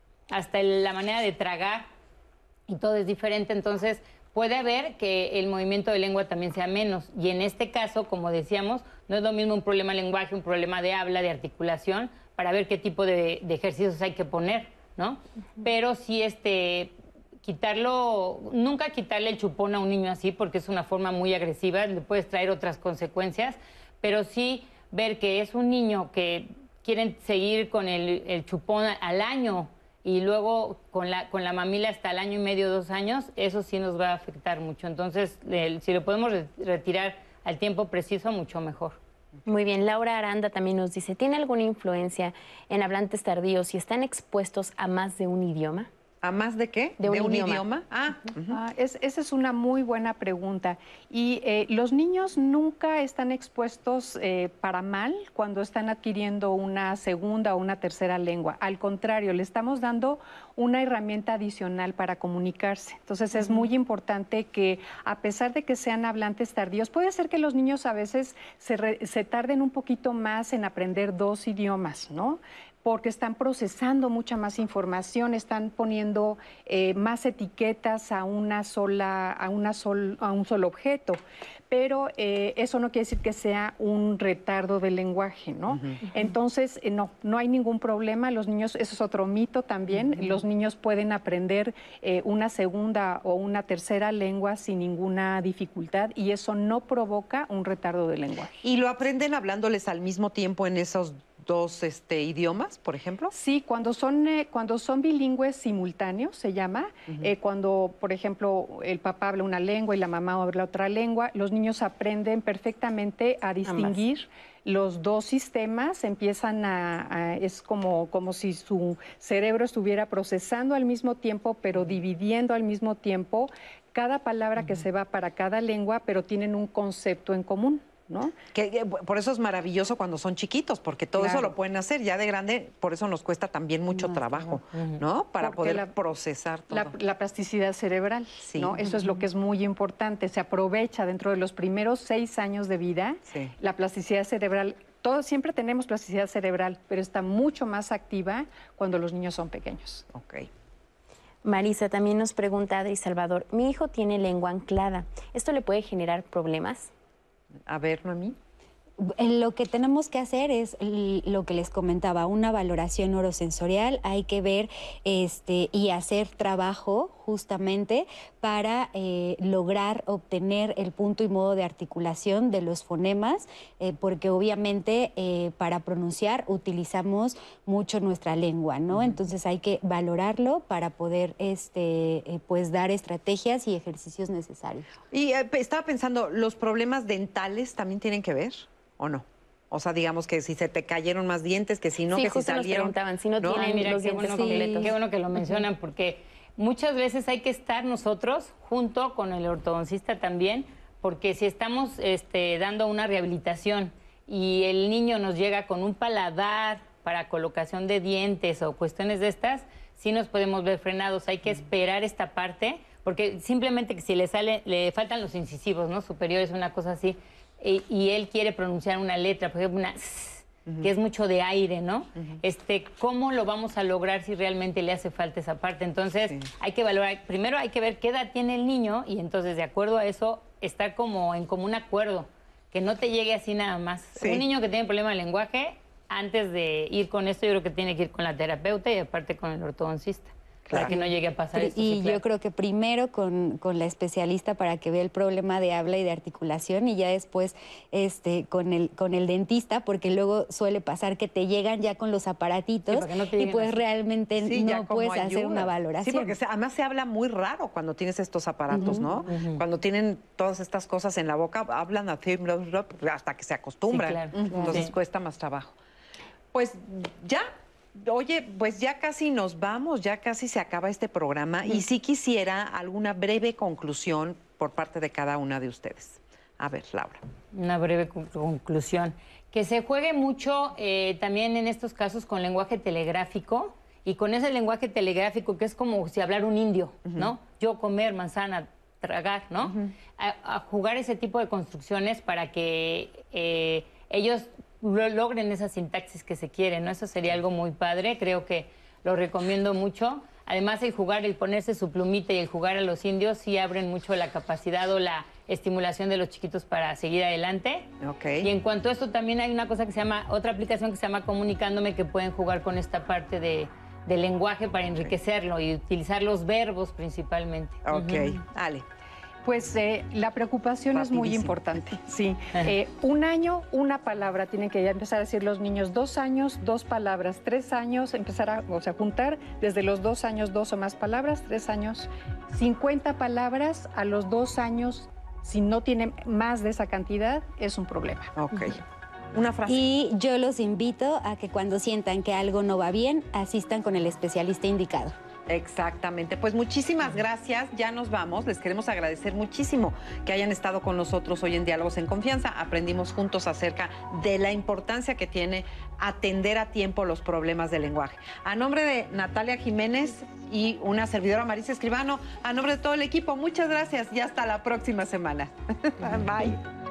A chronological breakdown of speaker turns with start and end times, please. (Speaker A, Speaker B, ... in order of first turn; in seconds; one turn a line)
Speaker A: 0.3-1.9
Speaker A: 2.7-39.0
Speaker B: 39.5-45.9
Speaker C: 46.2-48.6
Speaker B: 47.0-47.7
Speaker D: 48.5-98.6
Speaker C: 85.7-86.0
Speaker C: 98.6-103.3
Speaker D: 103.3-128.3
Speaker B: 113.7-114.0
Speaker C: 128.5-137.0
Speaker D: 131.2-131.5
Speaker A: 134.7-135.0
Speaker D: 135.4-135.9
Speaker D: 136.7-150.1
Speaker C: 138.4-138.8
Speaker C: 143.3-143.5
Speaker C: 150.1-150.5
Speaker B: 151.4-156.9
Speaker C: 157.7-158.4
Speaker E: 159.0-184.9
Speaker C: 178.9-179.2
Speaker C: 185.1-193.9
Speaker B: 192.1-195.6
Speaker A: 193.5-242.2
Speaker C: 234.2-234.4
Speaker C: 240.7-241.0
Speaker E: 240.7-241.0
Speaker E: 241.5-256.4
Speaker A: 252.9-253.8
Speaker C: 254.4-265.8
Speaker E: 258.7-259.2
Speaker A: 259.3-259.6
Speaker A: 263.9-264.9
Speaker E: 264.5-264.8
Speaker C: 266.5-277.2
Speaker A: 277.5-307.9
Speaker C: 287.1-287.3
Speaker C: 289.6-289.9
Speaker C: 308.0-308.5
Speaker A: 308.4-318.4
Speaker C: 317.9-318.9
Speaker D: 319.4-338.3
Speaker C: 320.9-322.0
Speaker C: 338.4-338.8
Speaker C: 339.3-339.8
Speaker E: 339.7-345.1
Speaker C: 345.5-366.6